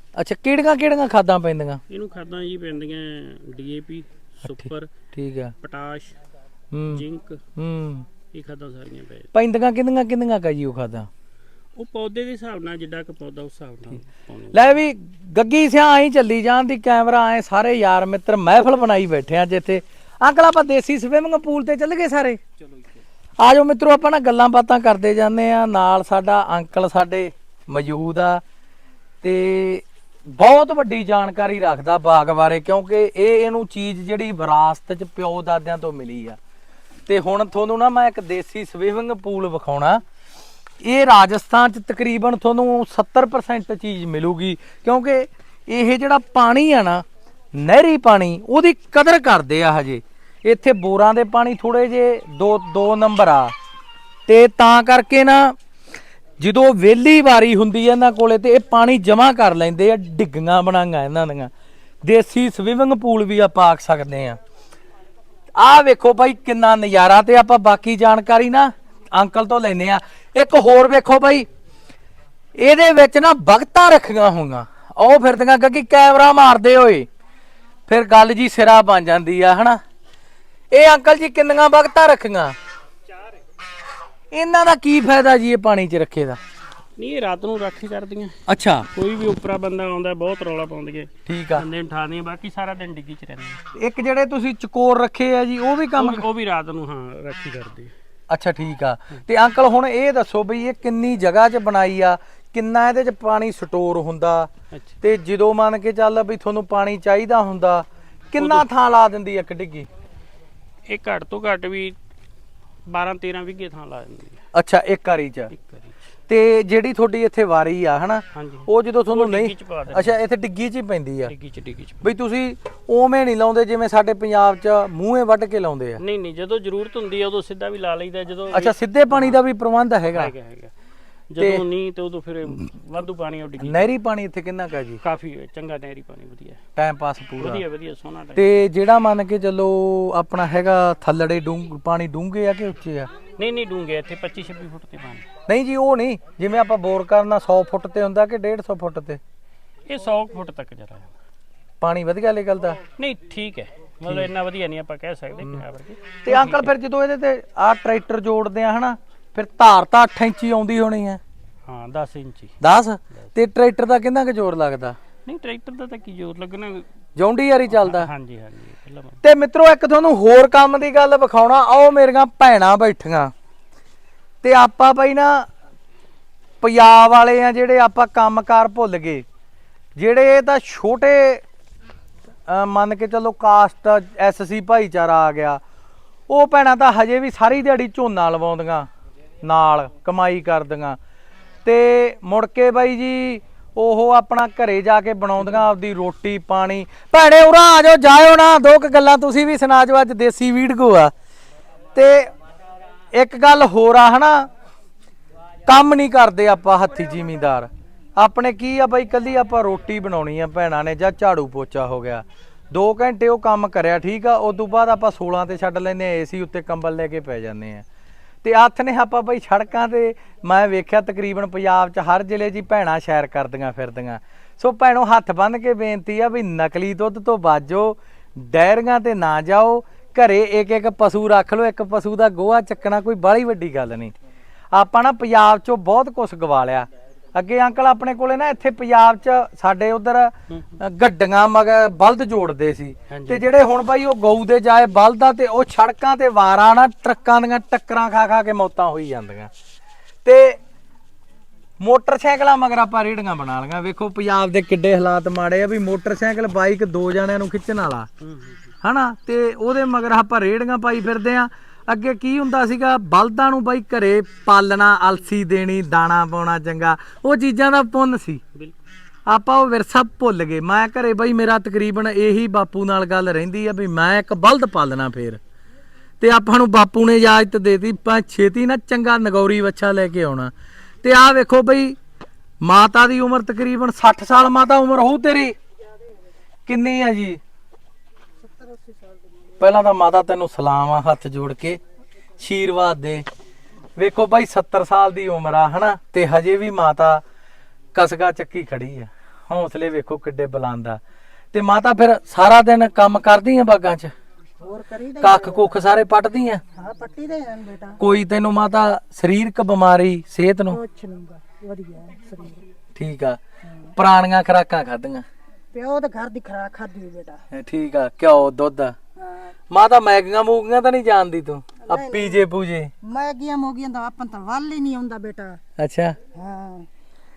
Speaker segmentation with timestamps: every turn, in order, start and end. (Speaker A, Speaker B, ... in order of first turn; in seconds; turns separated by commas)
Speaker A: 0.2-1.8, Speaker B: 1.9-4.9, Speaker A: 4.4-5.5, Speaker B: 5.6-6.1, Speaker A: 6.7-7.0, Speaker B: 6.9-7.4, Speaker A: 7.6-8.1, Speaker B: 8.3-9.3, Speaker A: 9.3-11.1, Speaker B: 11.8-14.8, Speaker A: 14.5-22.4, Speaker B: 22.6-23.0, Speaker A: 23.4-28.4, Speaker A: 29.2-36.4, Speaker A: 37.1-40.0, Speaker A: 40.8-53.5, Speaker A: 54.3-55.5, Speaker A: 56.4-61.5, Speaker A: 62.0-64.4, Speaker A: 65.6-71.5, Speaker A: 72.6-77.1, Speaker A: 77.9-79.8, Speaker A: 80.7-82.5, Speaker A: 84.3-86.4, Speaker B: 87.0-88.4, Speaker A: 88.5-88.9, Speaker B: 88.9-93.6, Speaker A: 91.3-91.7, Speaker A: 93.7-96.2, Speaker B: 96.0-97.9, Speaker A: 98.3-104.5, Speaker A: 105.0-109.9, Speaker B: 108.4-108.7, Speaker B: 110.9-112.0, Speaker B: 112.8-114.4, Speaker A: 114.5-115.5, Speaker B: 115.5-115.9, Speaker A: 116.3-121.3, Speaker B: 118.3-120.2, Speaker B: 121.3-122.1, Speaker A: 122.0-126.0, Speaker B: 126.0-129.4, Speaker A: 128.5-130.3, Speaker B: 130.1-130.7, Speaker B: 131.3-133.9, Speaker A: 131.4-131.6, Speaker A: 133.6-135.0, Speaker B: 135.0-136.6, Speaker A: 136.8-137.6, Speaker B: 137.4-138.6, Speaker A: 138.3-143.1, Speaker B: 143.4-145.3, Speaker A: 145.5-149.2, Speaker B: 149.9-151.1, Speaker A: 151.8-152.8, Speaker B: 152.9-156.7, Speaker A: 156.2-161.2, Speaker B: 161.7-162.6, Speaker A: 162.6-165.0, Speaker B: 165.2-166.9, Speaker A: 167.2-168.1, Speaker B: 167.7-169.2, Speaker A: 169.2-173.3, Speaker A: 174.4-175.5, Speaker A: 176.6-179.2, Speaker A: 180.0-181.4, Speaker A: 182.5-185.6, Speaker A: 186.3-188.9, Speaker A: 189.4-191.0, Speaker A: 191.6-201.1, Speaker A: 201.9-202.3, Speaker A: 203.1-204.5, Speaker A: 205.7-217.8, Speaker A: 218.4-234.1, Speaker A: 234.7-249.5, Speaker B: 240.5-240.8, Speaker B: 243.1-243.4, Speaker A: 250.2-250.6, Speaker A: 251.8-258.1, Speaker B: 258.2-258.7, Speaker A: 258.8-268.4, Speaker A: 269.3-275.4, Speaker A: 276.2-280.5, Speaker A: 281.0-282.0, Speaker A: 282.6-285.6, Speaker A: 286.7-287.4, Speaker C: 288.4-289.2, Speaker A: 289.6-291.8, Speaker A: 292.4-293.2, Speaker A: 294.0-297.2, Speaker A: 297.9-301.0, Speaker A: 301.5-304.1, Speaker C: 304.6-305.8, Speaker A: 305.2-306.6, Speaker C: 306.7-308.0, Speaker A: 308.0-310.8, Speaker C: 310.7-312.6, Speaker A: 312.9-313.4, Speaker A: 313.9-315.2, Speaker C: 315.7-317.4, Speaker A: 317.5-318.9, Speaker A: 319.7-322.9, Speaker C: 321.8-322.5, Speaker C: 323.0-325.6, Speaker A: 325.8-326.1, Speaker C: 326.4-326.9